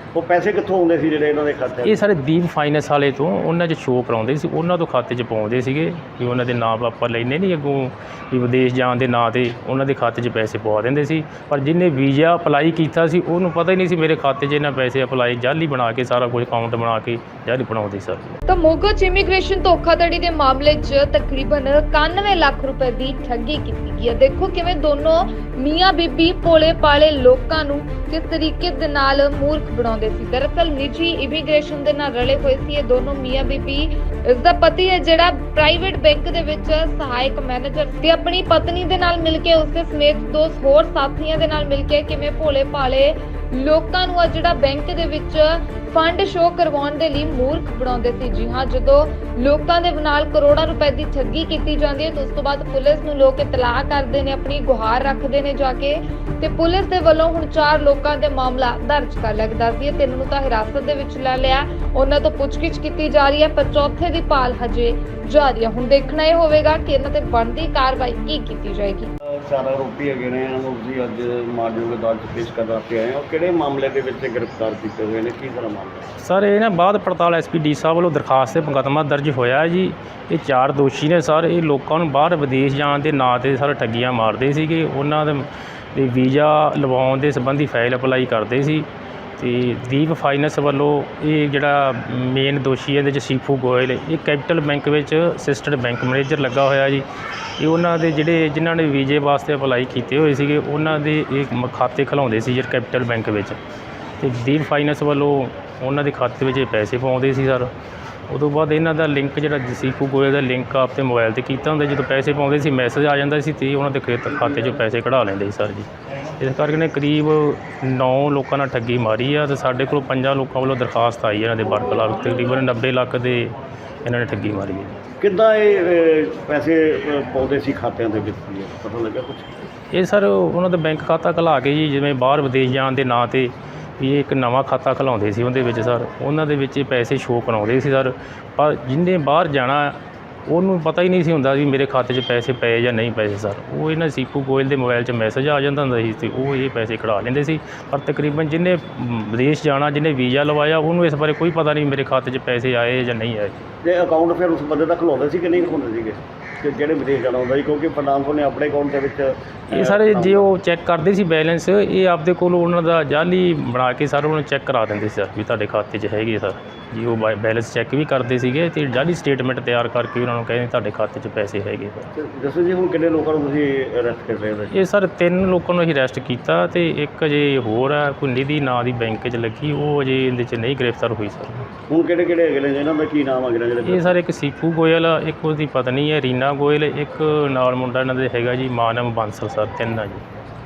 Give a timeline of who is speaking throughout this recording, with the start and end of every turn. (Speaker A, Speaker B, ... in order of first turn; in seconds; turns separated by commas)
Speaker A: 0.1-2.0, Speaker B: 1.8-18.3, Speaker C: 18.5-69.1, Speaker A: 69.2-76.1, Speaker B: 76.2-88.9, Speaker B: 89.4-97.0, Speaker B: 97.6-103.6, Speaker B: 104.2-107.7, Speaker B: 108.3-115.9, Speaker B: 116.4-125.0, Speaker A: 125.2-129.5, Speaker B: 129.9-153.5, Speaker A: 153.8-160.5, Speaker B: 159.7-172.1, Speaker A: 172.2-174.7, Speaker B: 174.7-181.7, Speaker A: 181.9-184.1, Speaker B: 183.8-190.2